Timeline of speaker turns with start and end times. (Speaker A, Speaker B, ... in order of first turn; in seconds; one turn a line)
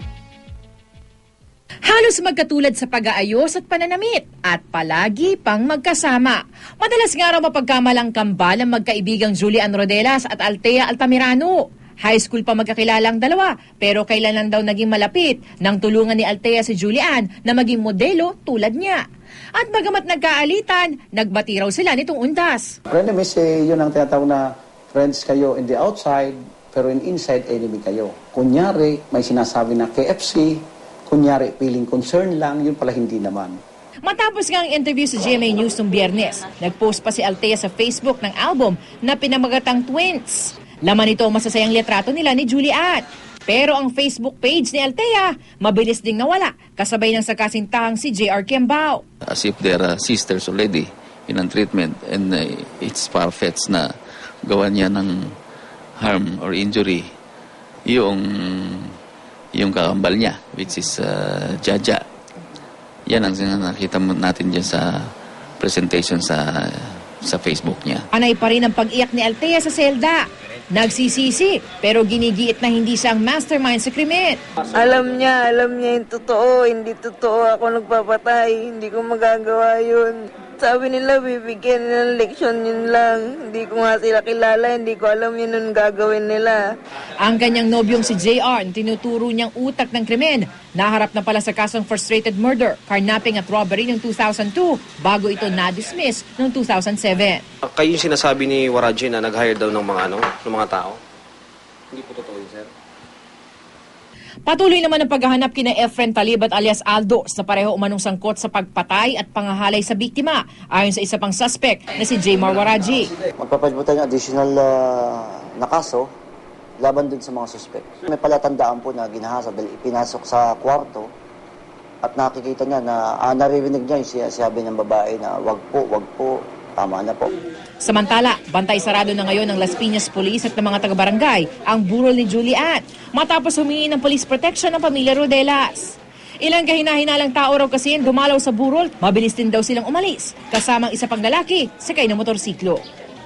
Speaker A: 1.8-19.0
Speaker A: 19.5-22.8
Speaker B: 22.9-33.6
Speaker A: 34.0-49.0
Speaker C: 49.3-53.9
Speaker C: 54.4-55.3
Speaker C: 56.0-57.0
Speaker C: 57.9-58.9
Speaker C: 59.5-62.0
Speaker C: 63.1-65.1
Speaker C: 65.6-68.0
Speaker A: 68.1-74.4
Speaker D: 74.7-86.7
Speaker A: 87.2-97.4
Speaker E: 97.6-101.0
Speaker E: 101.9-102.7
Speaker A: 104.5-113.1
Speaker F: 113.4-116.1
Speaker F: 116.8-121.1
Speaker F: 122.0-127.3
Speaker A: 127.8-142.8